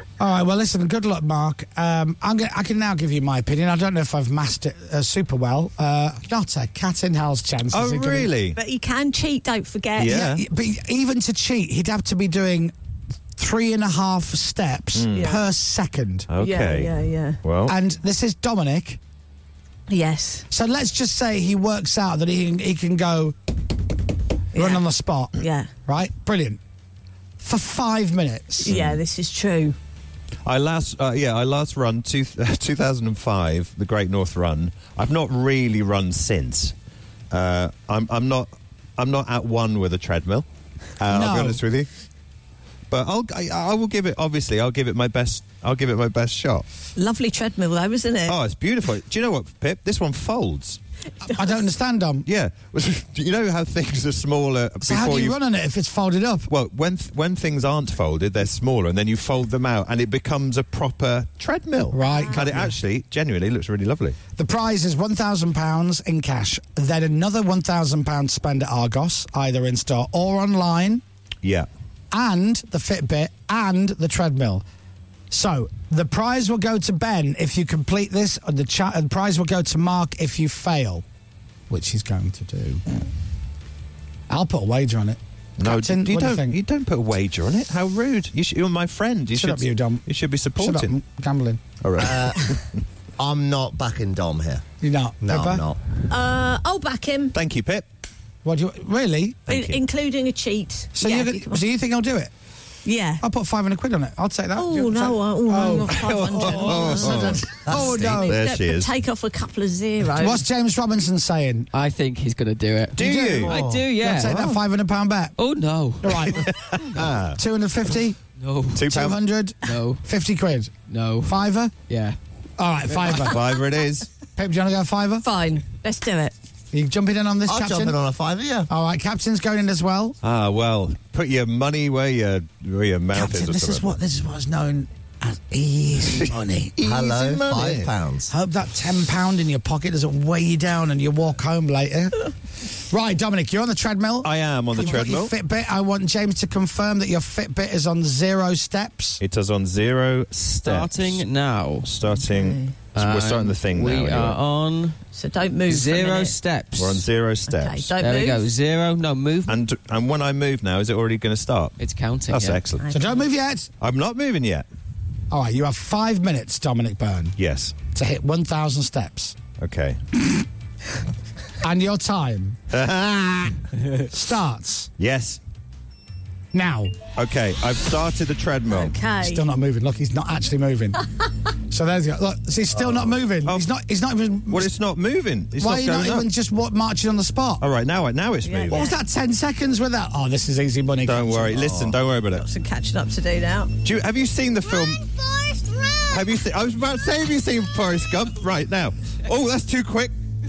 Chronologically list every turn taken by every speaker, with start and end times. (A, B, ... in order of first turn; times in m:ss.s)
0:00.2-0:08.3 A
0:07.7-0:08.6 B
0:08.6-0:10.3 C
0:10.0-0:10.4 B
0:10.1-0:12.7 A
0:13.4-0:16.3 A
0:15.0-0:15.3 B
0:15.2-0:15.4 C
0:16.3-0:16.9 B
0:16.4-0:17.4 C
0:17.4-0:17.8 B
0:17.7-0:19.0 A
0:19.9-0:20.5 C
0:20.5-0:23.4 A
0:24.5-0:24.8 C
0:24.6-0:25.3 A
0:25.3-0:25.7 C
0:25.9-0:26.6 A
0:27.4-0:28.8 A
0:28.6-0:29.8 C
0:28.7-0:29.0 B
0:30.4-0:36.7 B
0:37.3-0:40.5 B
0:41.0-0:41.9 B
0:41.1-0:41.6 A
0:42.9-0:46.6 B
0:47.0-0:48.4 C
0:48.3-0:50.8 B
0:51.2-0:52.3 A
0:52.3-0:55.4 B
0:54.8-0:56.5 A
0:56.5-1:04.2 B
1:01.9-1:02.7 A
1:02.0-1:02.5 C
1:04.4-1:11.0 A
1:11.4-1:11.7 B
1:12.1-1:14.6 A
1:15.3-1:21.0 A
1:21.7-1:22.8 A
1:24.3-1:26.6 A
1:25.6-1:30.9 B
1:29.3-1:30.0 A
1:30.6-1:31.6 A
1:31.8-1:32.5 B
1:32.0-1:32.6 D
1:33.2-1:34.6 D
1:34.8-1:35.6 A
1:35.2-1:35.8 D
1:36.1-1:37.4 C
1:37.3-1:37.9 B
1:38.4-1:39.6 A
1:39.5-1:41.6 C
1:39.5-1:39.8 B
1:41.0-1:42.3 A
1:42.8-1:43.2 C
1:43.2-1:48.4 A
1:44.6-1:50.4 C
1:46.0-1:48.9 B
1:50.2-1:51.7 A
1:51.7-1:54.5 E
1:53.0-1:53.6 B
1:53.0-1:55.4 A
1:53.4-1:53.9 D
1:54.3-1:54.5 B
1:55.4-1:56.3 E
1:56.0-1:56.5 A
1:56.3-1:57.4 B
1:57.4-1:58.2 A
1:58.4-1:58.9 E
1:58.7-1:59.2 B
1:58.8-2:01.7 A
1:59.6-2:00.0 E
2:00.9-2:01.4 E
2:01.9-2:02.2 E
2:02.6-2:03.5 A
2:03.1-2:04.1 B
2:04.4-2:05.2 A
2:05.2-2:06.3 C
2:06.7-2:08.0 A
2:07.5-2:08.7 D
2:08.7-2:10.2 A
2:10.2-2:14.0 B
2:13.1-2:29.2 A
2:16.8-2:18.3 D
2:17.4-2:17.8 B
2:24.2-2:25.3 B
2:29.2-2:31.2 B
2:30.6-2:31.9 E
2:31.8-2:34.4 B
2:32.2-2:32.7 C
2:33.0-2:35.0 E
2:35.1-2:36.4 C
2:35.7-2:37.0 E
2:36.8-2:37.9 B
2:37.5-2:38.5 C
2:38.0-2:39.6 E
2:39.5-2:41.8 B
2:41.8-2:42.6 E
2:42.3-2:42.8 B
2:42.8-2:43.2 C
2:42.9-2:43.7 A
2:43.8-2:44.7 B
2:45.3-2:47.4 A
2:47.4-2:47.8 B
2:47.9-2:49.4 A
2:49.6-2:50.0 B
2:51.6-2:52.6 A
2:52.7-2:53.6 B
2:54.1-2:54.9 A
2:55.0-2:55.4 B
2:56.5-2:57.0 A
2:57.2-2:58.9 B
2:58.7-2:59.4 C
2:59.2-3:01.1 A
3:01.7-3:04.7 A
3:04.5-3:06.3 B
3:05.6-3:07.6 A
3:07.6-3:08.8 B
3:08.4-3:09.0 C
3:08.7-3:11.8 A
3:11.0-3:12.4 B
3:11.6-3:12.0 D
3:12.3-3:13.7 C
3:13.8-3:15.0 B
3:14.7-3:16.4 C
3:16.1-3:20.1 B